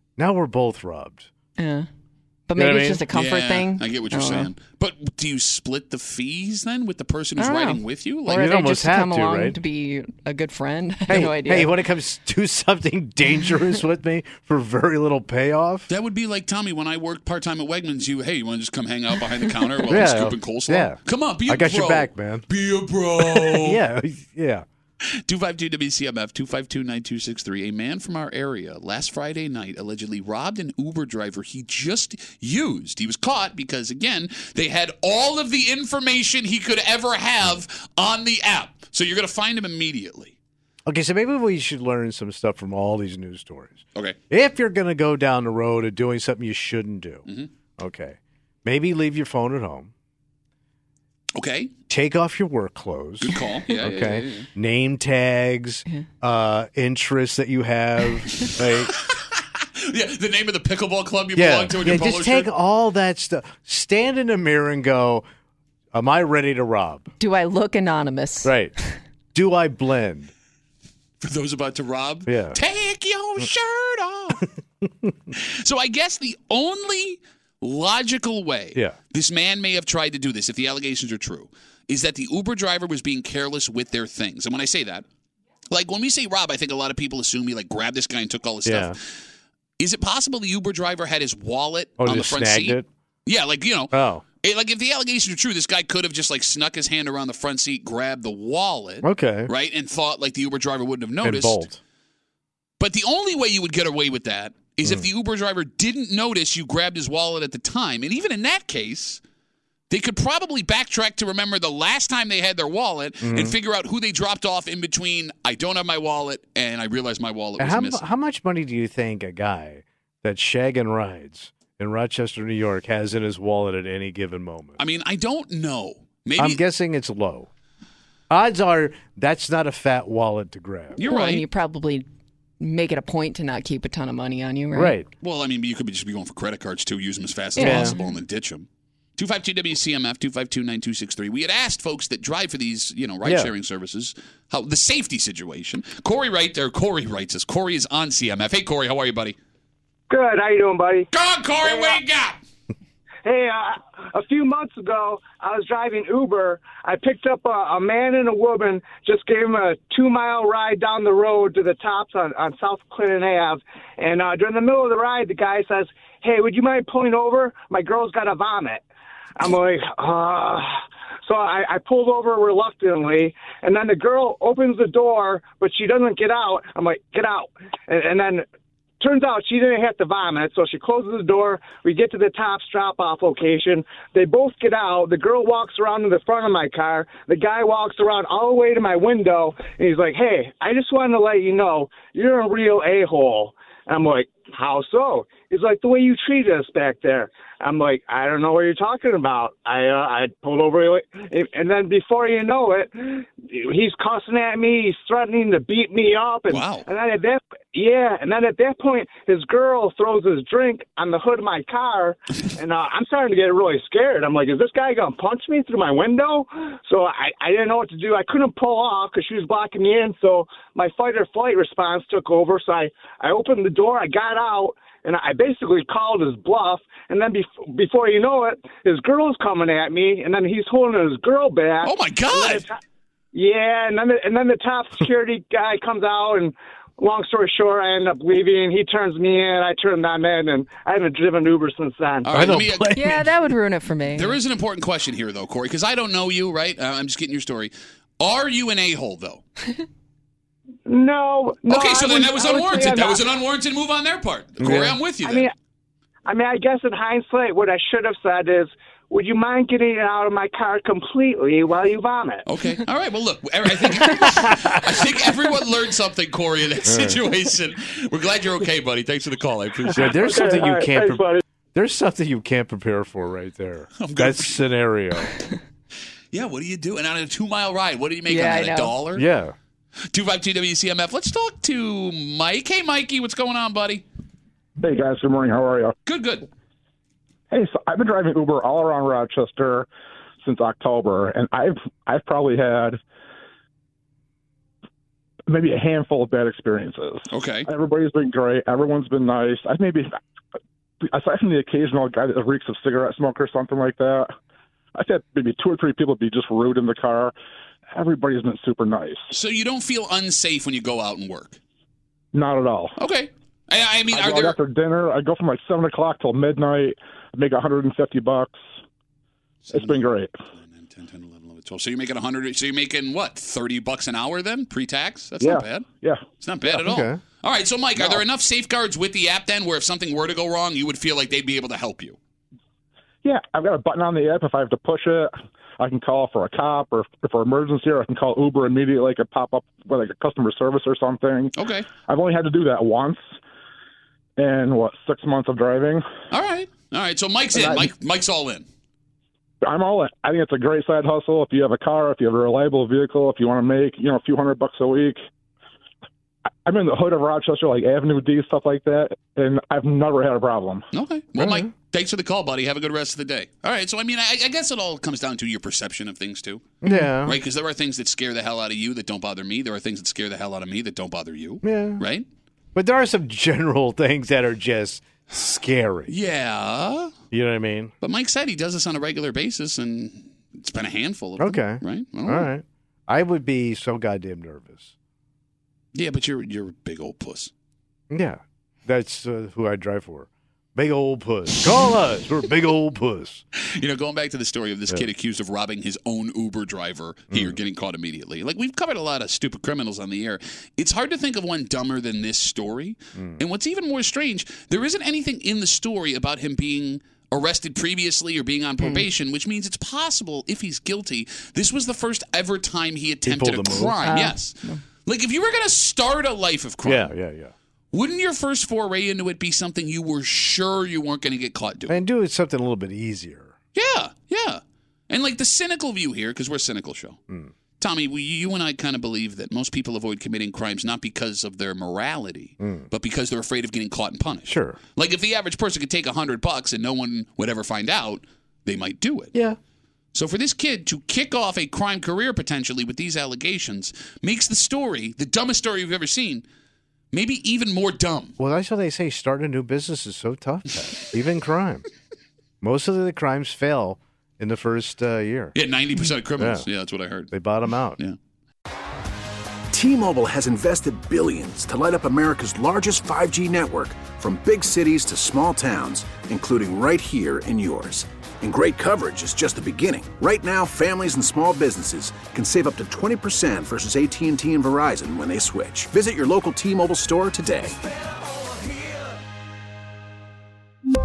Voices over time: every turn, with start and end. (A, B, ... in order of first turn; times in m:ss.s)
0:00.2-0:01.3 A
0:01.6-0:01.9 B
0:02.5-0:04.5 B
0:02.6-0:03.0 A
0:03.1-0:08.5 C
0:07.4-0:11.7 B
0:08.3-0:09.6 A
0:11.1-0:15.9 A
0:15.9-0:23.8 C
0:19.9-0:22.4 A
0:23.2-0:24.6 A
0:25.2-0:40.3 C
0:40.8-0:47.2 A
0:47.8-0:49.9 A
0:51.3-0:51.7 C
0:51.9-0:58.9 A
0:53.2-0:54.5 C
0:58.9-1:02.5 C
1:01.3-1:05.2 A
1:05.9-1:07.1 A
1:07.2-1:08.5 B
1:08.4-1:08.7 A
1:09.3-1:10.3 A
1:11.2-1:14.5 C
1:12.3-1:12.6 A
1:15.3-1:25.0 C
1:25.7-1:29.0 C
1:28.6-1:29.0 A
1:29.8-1:41.6 C
1:32.0-1:32.9 A
1:33.9-1:34.2 A
1:39.0-1:39.5 A
1:41.2-1:41.8 A
1:42.8-1:49.2 C
1:49.9-1:58.0 C
1:53.2-1:53.6 A
1:57.6-2:04.8 A
2:04.8-2:06.6 C
2:06.4-2:07.5 A
2:08.3-2:11.0 A
2:11.0-2:11.4 C
2:11.0-2:12.0 B
2:12.6-2:15.0 B
2:14.7-2:15.1 A
2:15.2-2:18.6 C
2:17.6-2:18.2 B
2:17.6-2:17.9 A
2:19.2-2:29.4 C
2:23.2-2:23.5 A
2:30.1-2:31.1 D
2:31.1-2:32.4 C
2:31.6-2:32.0 D
2:33.2-2:48.8 D
2:49.4-2:50.7 D
2:51.2-2:58.4 D
2:59.0-3:52.8 D
3:26.5-3:26.9 C
3:51.8-3:52.6 C
3:53.3-4:02.3 D
4:02.2-4:03.2 C
4:02.3-4:03.3 A
4:03.0-4:04.4 B
4:04.1-4:09.4 C
4:10.9-4:13.2 D
4:11.7-4:15.5 C
4:14.6-4:15.0 A
4:15.2-4:15.5 D
4:16.2-4:22.4 D
4:22.4-4:30.4 C
4:26.8-4:27.2 A
4:29.9-4:35.3 A
4:30.2-4:31.4 D
4:34.0-4:34.6 C
4:36.3-4:39.2 C
4:38.3-4:38.9 B
4:39.2-4:39.5 A
4:40.1-4:44.0 C
4:44.8-4:45.9 E
4:46.1-4:46.5 C
4:47.5-4:49.9 E
4:50.4-4:53.0 E
4:55.5-5:00.1 E
4:57.3-4:57.7 C
5:01.0-5:04.3 E
5:04.9-5:07.3 E
5:07.9-5:09.2 E
5:09.3-5:11.6 C
5:12.3-5:12.9 E
5:13.0-5:14.6 C
5:14.1-5:18.6 E
5:19.7-5:25.9 C
5:19.7-5:20.3 E
5:25.4-5:26.2 E
5:26.4-5:32.2 C
5:26.6-5:27.2 A
5:33.2-5:41.5 E
5:41.6-5:41.9 C
5:42.0-5:43.2 E
5:44.4-5:46.0 E
5:46.3-5:48.6 C
5:47.5-5:47.9 E
5:49.6-5:55.2 E
5:56.6-6:00.8 E
6:00.9-6:06.6 C
6:01.4-6:01.7 A
6:06.8-6:07.4 A
6:07.2-6:12.2 C
6:11.6-6:12.0 A
6:12.7-6:16.1 A
6:16.1-6:17.1 C
6:17.3-6:17.9 A
6:18.0-6:22.5 C
6:21.4-6:24.9 A
6:25.9-6:27.5 C
6:28.1-6:33.4 A
6:33.6-6:57.1 C
6:37.3-6:37.6 A
6:53.2-6:54.0 A
6:54.0-6:54.8 B
6:56.8-6:57.5 A
6:57.9-7:02.0 C
7:01.9-7:03.6 A
7:03.7-7:07.2 C
7:07.8-7:19.3 C
7:12.6-7:12.9 A
7:14.5-7:14.8 A
7:20.1-7:26.4 C
7:27.1-7:28.3 C
7:28.4-7:31.8 A
7:32.6-7:35.5 A
7:35.6-7:37.3 C
7:36.4-7:36.7 A
7:37.3-7:38.0 A
7:39.7-7:57.8 F